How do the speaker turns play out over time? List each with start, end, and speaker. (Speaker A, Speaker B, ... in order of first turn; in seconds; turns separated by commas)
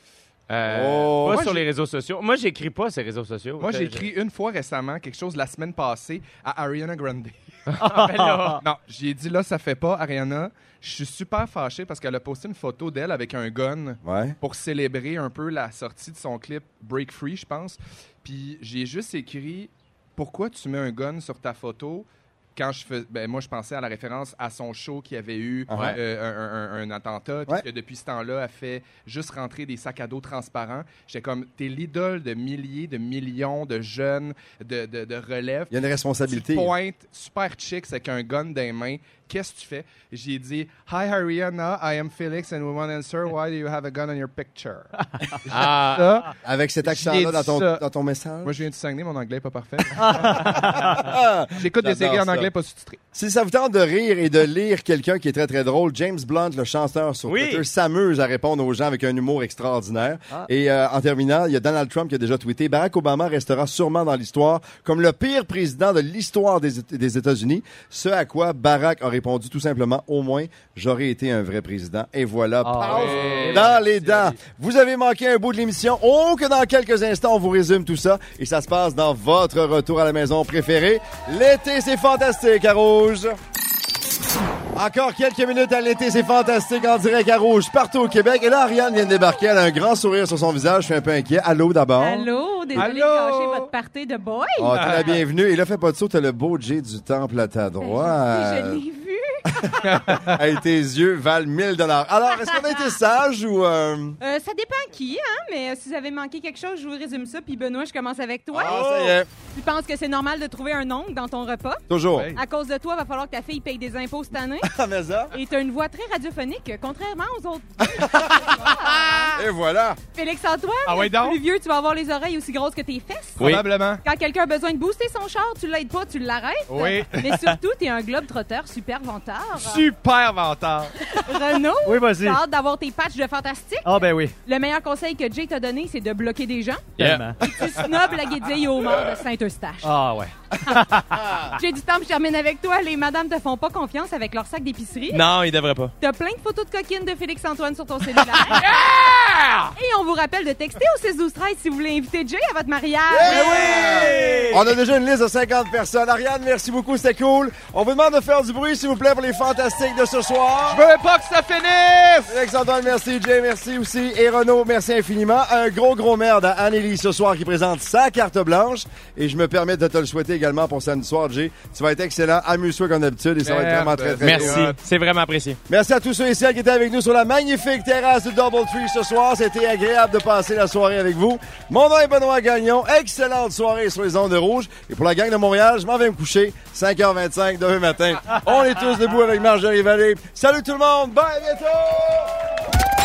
Speaker A: 0.5-4.1, Speaker B: 0.6-1.6, Speaker C: 1.3-1.6, Speaker C: 3.6-7.4, Speaker A: 7.7-8.6, Speaker D: 7.8-8.6, Speaker C: 8.6-35.7, Speaker B: 14.0-14.4, Speaker B: 25.7-26.0, Speaker A: 25.7-26.0, Speaker B: 35.7-36.7, Speaker C: 36.3-47.8, Speaker A: 45.5-46.1, Speaker B: 46.4-48.6, Speaker C: 48.4-53.0, Speaker D: 50.0-51.1, Speaker B: 50.7-52.5, Speaker B: 53.1-83.3, Speaker A: 57.3-57.6, Speaker D: 72.6-73.8, Speaker C: 72.8-74.3, Speaker B: 84.7-92.3, Speaker E: 92.0-95.2, Speaker C: 92.7-93.7, Speaker B: 94.6-98.8, Speaker C: 94.7-95.2, Speaker E: 97.8-100.2, Speaker B: 99.6-104.2, Speaker C: 99.8-100.4, Speaker E: 102.2-103.0, Speaker E: 104.2-114.7, Speaker B: 108.5-109.3, Speaker C: 108.7-109.1, Speaker B: 111.9-112.3, Speaker C: 112.1-112.4, Speaker B: 114.6-115.3, Speaker E: 115.3-119.4, Speaker B: 117.9-118.4, Speaker C: 118.3-119.3, Speaker B: 119.3-120.0, Speaker E: 120.1-129.8, Speaker C: 120.8-121.4, Speaker A: 123.4-123.6, Speaker C: 123.4-124.0, Speaker C: 126.7-127.5, Speaker C: 129.5-131.3, Speaker E: 131.1-139.9, Speaker D: 131.8-132.4, Speaker D: 133.8-134.3, Speaker A: 137.0-137.3, Speaker D: 137.0-137.4, Speaker D: 139.8-141.5, Speaker E: 140.7-145.2, Speaker A: 145.1-145.9, Speaker E: 146.0-148.8, Speaker C: 148.6-149.5, Speaker A: 148.6-149.7, Speaker E: 149.7-154.0, Speaker B: 153.1-160.8, Speaker A: 153.2-154.6, Speaker C: 160.7-162.4, Speaker B: 162.3-174.7, Speaker C: 173.4-174.8, Speaker A: 174.2-175.6, Speaker B: 175.7-192.3